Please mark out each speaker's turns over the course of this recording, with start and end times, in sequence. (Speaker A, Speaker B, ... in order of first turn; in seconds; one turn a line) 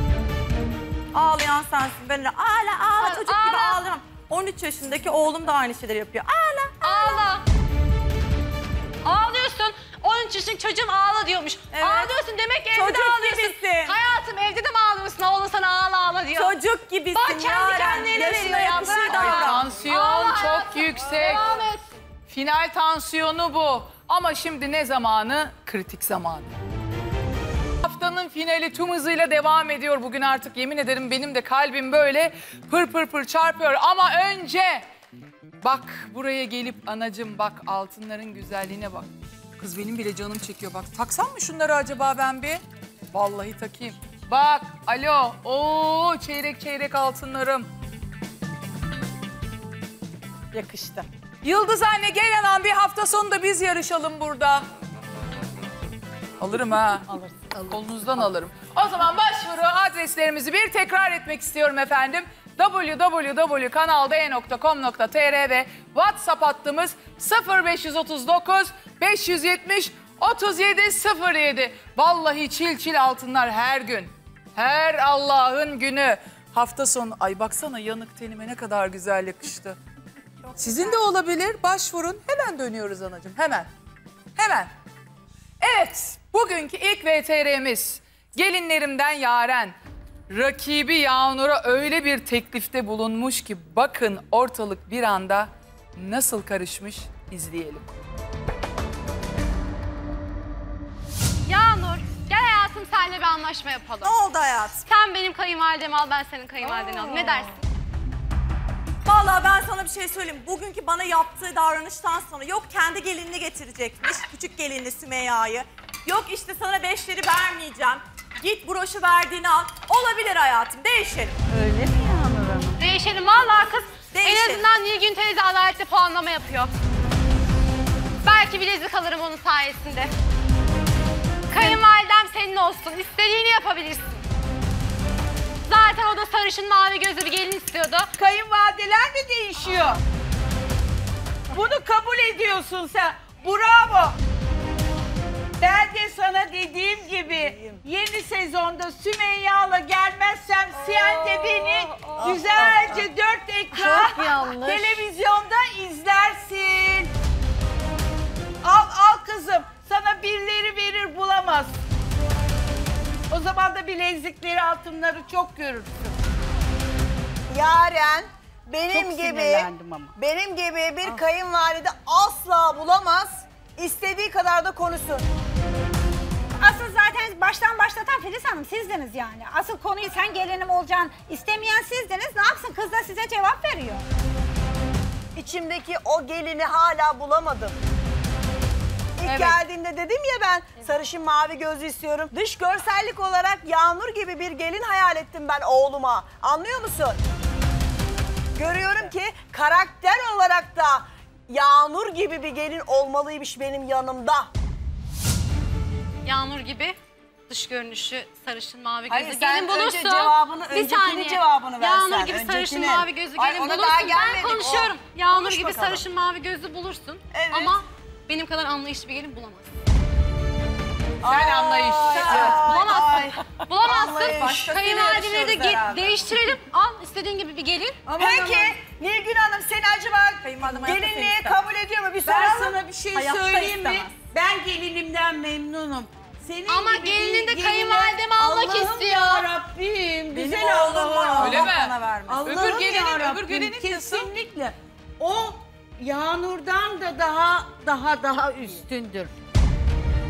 Speaker A: 1.1-6.9
Speaker B: 3.0-3.8
Speaker B: 6.8-7.4
Speaker B: 9.0-16.6
Speaker A: 11.7-12.0
Speaker A: 12.7-13.9
Speaker A: 16.4-19.7
Speaker B: 17.1-21.9
Speaker C: 18.8-21.6
Speaker C: 22.3-26.5
Speaker C: 27.8-34.9
Speaker C: 35.6-47.7
Speaker A: 50.5-51.0
Speaker C: 51.4-54.6
Speaker C: 56.4-79.8
Speaker C: 80.6-83.7
Speaker C: 84.4-84.7
Speaker C: 85.6-89.8
Speaker C: 90.3-97.9
Speaker B: 101.5-104.2
Speaker A: 104.0-104.8
Speaker B: 104.9-107.6
Speaker A: 109.1-121.4
Speaker D: 121.5-122.8
Speaker B: 122.8-126.7
Speaker A: 124.1-124.6
Speaker B: 128.2-130.1
Speaker B: 131.5-134.2
Speaker B: 135.7-138.1
Speaker D: 138.2-140.0
Speaker D: 141.5-144.2
Speaker D: 145.6-157.1
Speaker A: 151.0-153.0
Speaker A: 153.8-155.0
Speaker D: 158.6-161.7
Speaker D: 163.3-166.1
Speaker E: 167.5-175.3
Speaker D: 168.9-170.2
Speaker F: 176.6-184.1
Speaker E: 185.4-187.8
Speaker E: 189.2-197.2
Speaker C: 189.3-189.5
Speaker E: 198.6-204.5
Speaker B: 206.2-207.0
Speaker B: 207.5-219.7
Speaker E: 209.1-216.0
Speaker E: 217.3-217.8
Speaker E: 221.2-224.6
Speaker C: 221.2-222.7
Speaker B: 222.2-228.0
Speaker A: 224.0-226.1
Speaker D: 228.1-228.8
Speaker E: 228.2-232.8
Speaker A: 230.4-231.6
Speaker D: 232.2-241.7
Speaker A: 233.1-234.1
Speaker B: 236.7-239.5
Speaker A: 240.3-242.5
Speaker C: 241.4-244.3
Speaker D: 242.3-249.3